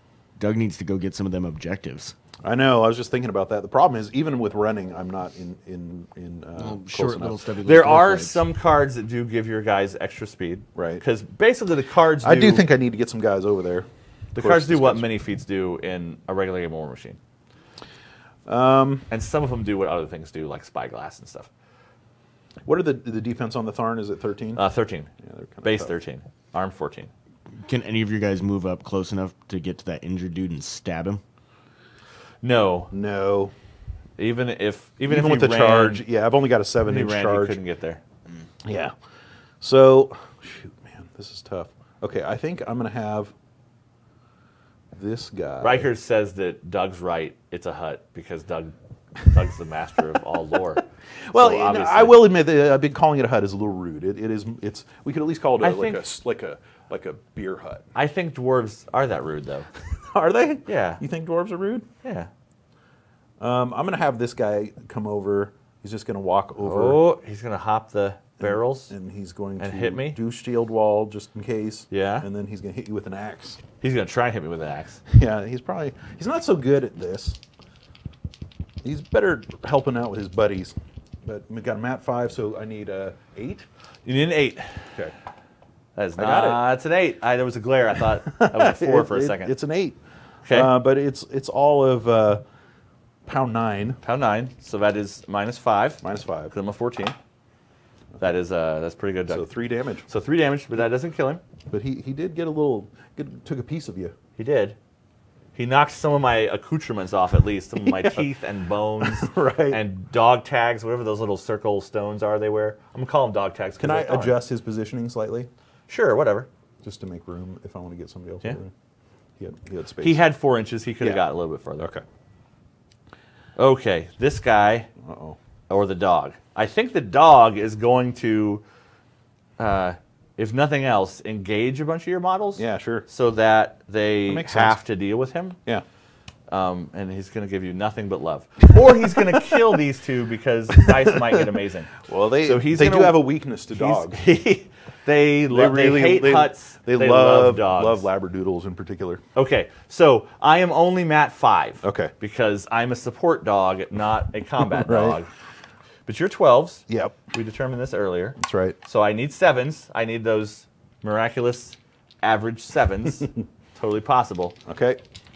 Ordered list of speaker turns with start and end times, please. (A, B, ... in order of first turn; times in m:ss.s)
0:00.4-0:02.1 A
0:02.4-0:07.4 B
0:06.6-0:08.4 A
0:07.6-0:12.6 C
0:10.8-0:11.0 B
0:12.2-0:15.1 B
0:14.4-0:17.2 C
0:18.5-0:19.1 B
0:19.1-0:21.5 C
0:22.6-0:24.6 B
0:24.6-0:25.1 C
0:25.2-0:25.9 B
0:25.6-0:27.1 C
0:27.6-0:31.2 A
0:32.4-0:32.9 C
0:32.9-0:33.5 B
0:34.2-0:36.0 C
0:35.1-0:37.6 B
0:36.8-0:38.0 C
0:38.6-0:38.9 B
0:39.6-0:43.3 B
0:44.9-0:45.9 B
0:45.6-0:52.3 C
0:51.3-0:57.9 B
0:55.6-0:56.0 C
0:58.0-0:59.7 C
0:59.9-1:01.8 B
1:00.7-1:01.0 C
1:02.0-1:02.3 C
1:03.4-1:07.0 B
1:06.6-1:08.9 C
1:08.4-1:13.6 B
1:09.6-1:10.2 C
1:11.9-1:12.3 C
1:13.8-1:15.0 C
1:15.1-1:17.4 B
1:18.8-1:23.7 B
1:24.1-1:24.9 C
1:26.0-1:29.5 C
1:26.2-1:26.6 B
1:28.3-1:32.4 B
1:30.5-1:30.7 C
1:33.3-1:34.0 B
1:34.0-1:37.2 C
1:36.0-1:36.5 B
1:38.2-1:39.5 C
1:39.3-1:40.1 B
1:40.1-1:41.4 C
1:41.7-1:44.1 B
1:44.4-1:44.8 C
1:45.6-1:54.4 C
1:47.8-1:48.3 B
1:49.0-1:49.8 B
1:53.8-1:55.5 B
1:55.9-1:56.5 C
1:56.8-1:58.7 B
1:59.4-2:00.2 B
2:00.0-2:01.9 C
2:01.8-2:02.0 B
2:03.6-2:04.9 C
2:05.0-2:05.4 B
2:05.7-2:08.6 C
2:09.6-2:15.6 C
2:12.6-2:13.1 B
2:14.3-2:14.8 B
2:16.5-2:28.1 C
2:19.2-2:19.6 B
2:20.8-2:21.5 B
2:22.0-2:24.2 B
2:25.5-2:29.2 B
2:29.4-2:35.3 C
2:31.8-2:32.1 B
2:34.6-2:35.2 B
2:36.1-2:44.6 C
2:36.9-2:37.2 B
2:38.4-2:38.8 B
2:44.7-2:45.0 B